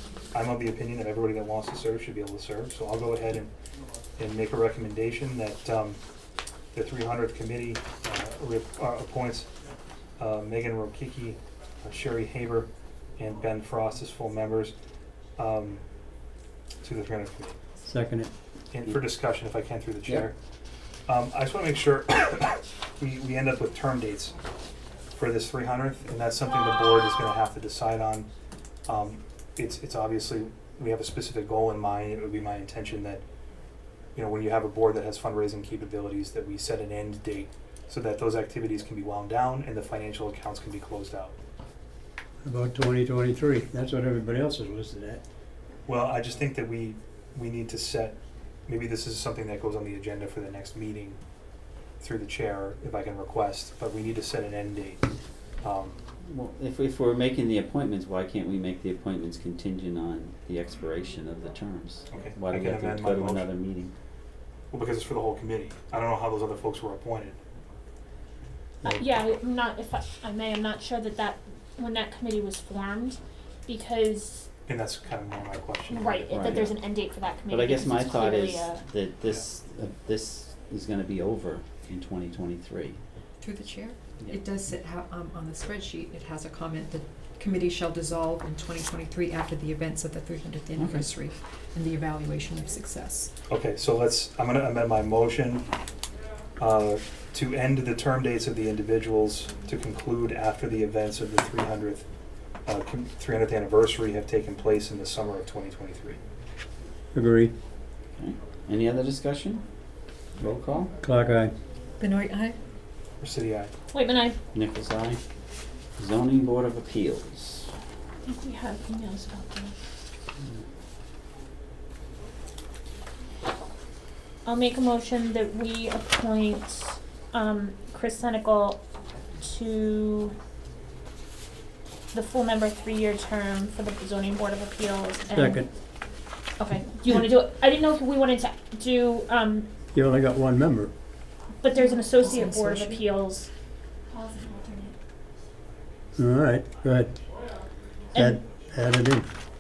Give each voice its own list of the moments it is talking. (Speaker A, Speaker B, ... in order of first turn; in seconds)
Speaker A: 0.3-3.5, 4.2-6.0, 6.7-9.5, 10.2-14.7, 15.4-15.8, 16.8-17.6, 18.7-20.4, 21.1-24.4, 25.1-28.3, 28.9-33.2, 34.1-41.4, 45.9-51.2, 52.0-55.0, 55.6-56.0, 62.1-63.5, 64.7-67.4, 74.7-76.6, 93.5-95.7, 96.6-102.1, 102.7-106.2, 113.2-113.7
Speaker B: 17.9-18.3, 42.5-45.2, 107.1-107.5, 111.0-111.5, 135.3-135.7, 139.9-140.9, 146.2-147.1, 148.2-149.3
Speaker C: 56.2-63.9, 76.3-76.8, 77.5-83.0, 90.8-91.1, 108.2-109.6, 110.4-110.9, 114.5-115.2, 116.0-117.7
Speaker D: 68.8-74.5, 75.9-78.8, 113.9-114.4, 118.3-119.8, 124.5-128.8, 129.4-130.3, 132.1-135.6, 136.6-139.7, 141.6-143.5, 144.1-144.9, 148.1-148.4
Speaker E: 83.4-93.3, 112.0-112.6, 141.8-143.0